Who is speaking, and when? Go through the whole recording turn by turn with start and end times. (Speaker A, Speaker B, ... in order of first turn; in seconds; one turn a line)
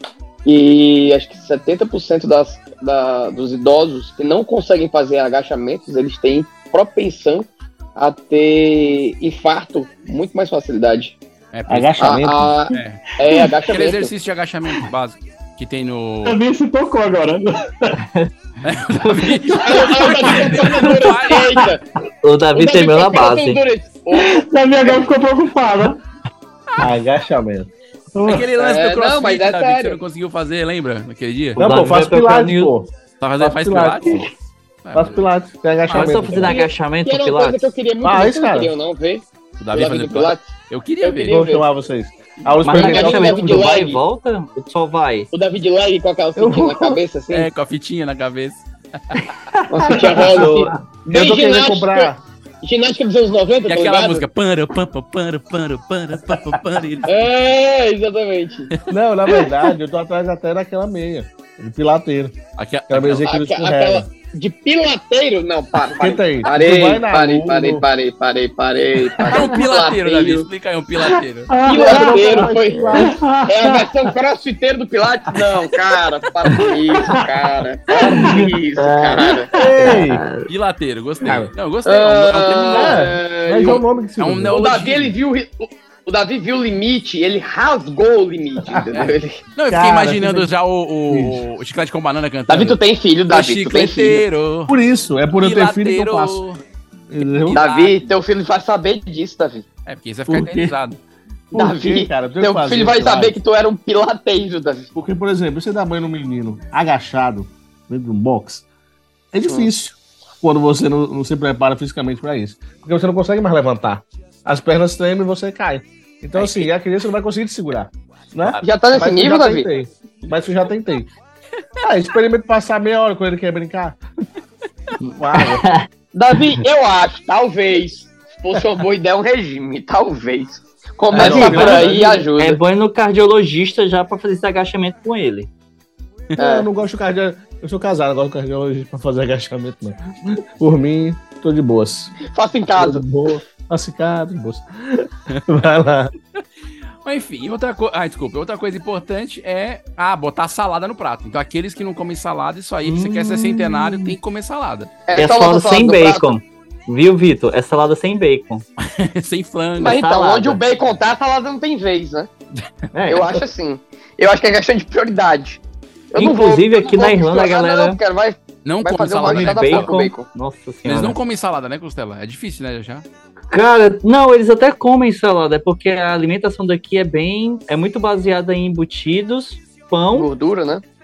Speaker A: 0.4-11.1
Speaker B: 11.5-13.0
Speaker C: 11.7-12.5
Speaker A: 12.0-14.1
Speaker B: 13.7-16.4
Speaker D: 16.2-17.9
Speaker E: 18.0-18.3
Speaker B: 18.6-21.5
Speaker E: 19.0-19.4
Speaker A: 19.6-21.8
Speaker D: 19.7-20.9
Speaker E: 22.2-23.6
Speaker A: 22.5-25.0
Speaker D: 24.1-26.0
Speaker C: 26.8-27.7
Speaker D: 28.1-28.5
Speaker B: 28.2-31.6
Speaker A: 28.6-30.0
Speaker E: 31.6-32.7
Speaker C: 31.6-32.9
Speaker B: 33.2-34.3
Speaker C: 33.4-34.3
Speaker B: 34.8-35.3
Speaker C: 34.9-36.6
Speaker E: 35.9-37.7
Speaker B: 35.9-36.3
Speaker A: 36.4-40.5
Speaker C: 38.0-38.7
Speaker B: 39.6-41.4
Speaker A: 41.0-41.6
Speaker C: 41.2-43.7
Speaker E: 42.6-45.3
Speaker A: 42.7-44.0
Speaker A: 45.3-47.5
Speaker C: 46.4-47.0
Speaker B: 47.3-48.6
Speaker E: 49.2-49.7
Speaker A: 49.7-54.2
Speaker D: 49.9-50.5
Speaker E: 50.2-50.7
Speaker C: 51.0-52.2
Speaker B: 53.7-57.1
Speaker A: 57.0-58.7
Speaker C: 58.9-62.4
Speaker B: 62.6-63.3
Speaker C: 62.9-64.1
Speaker A: 63.2-70.5
Speaker C: 65.9-67.8
Speaker B: 69.3-71.5
Speaker D: 71.5-73.9
Speaker C: 71.7-73.2
Speaker A: 71.7-79.5
Speaker E: 78.1-80.5
Speaker C: 79.5-80.2
Speaker B: 80.5-83.1
Speaker C: 81.2-81.5
Speaker A: 81.8-83.8
Speaker C: 82.7-84.6
Speaker B: 84.2-85.1
Speaker A: 84.5-89.4
Speaker C: 88.7-89.1
Speaker B: 88.9-94.7
Speaker C: 89.7-90.5
Speaker C: 91.1-91.4
Speaker A: 92.5-94.2
Speaker C: 94.7-96.4
Speaker B: 95.4-96.6
Speaker C: 97.1-97.6
Speaker B: 97.3-98.0
Speaker A: 97.5-99.6
Speaker B: 99.8-101.0
Speaker C: 100.3-100.7
Speaker C: 101.5-103.3
Speaker A: 101.5-104.9
Speaker C: 104.9-108.6
Speaker C: 109.3-121.1
Speaker A: 118.6-119.7
Speaker C: 121.8-124.0
Speaker E: 125.0-125.8
Speaker C: 125.1-125.6
Speaker A: 126.1-132.6
Speaker C: 131.1-132.3
Speaker E: 131.1-135.5
Speaker C: 136.4-142.1
Speaker A: 136.4-136.7
Speaker A: 142.3-143.0
Speaker C: 142.7-146.1
Speaker B: 147.0-154.9
Speaker E: 152.8-154.1
Speaker A: 155.1-156.3
Speaker E: 155.1-158.6
Speaker B: 158.8-160.0
Speaker A: 159.8-162.3
Speaker E: 159.8-160.6
Speaker E: 162.9-163.4
Speaker A: 163.1-165.6
Speaker A: 166.1-170.3
Speaker E: 166.2-168.0
Speaker B: 168.6-169.9
Speaker E: 169.2-171.2
Speaker B: 170.8-173.0
Speaker E: 173.5-180.3
Speaker A: 180.1-180.8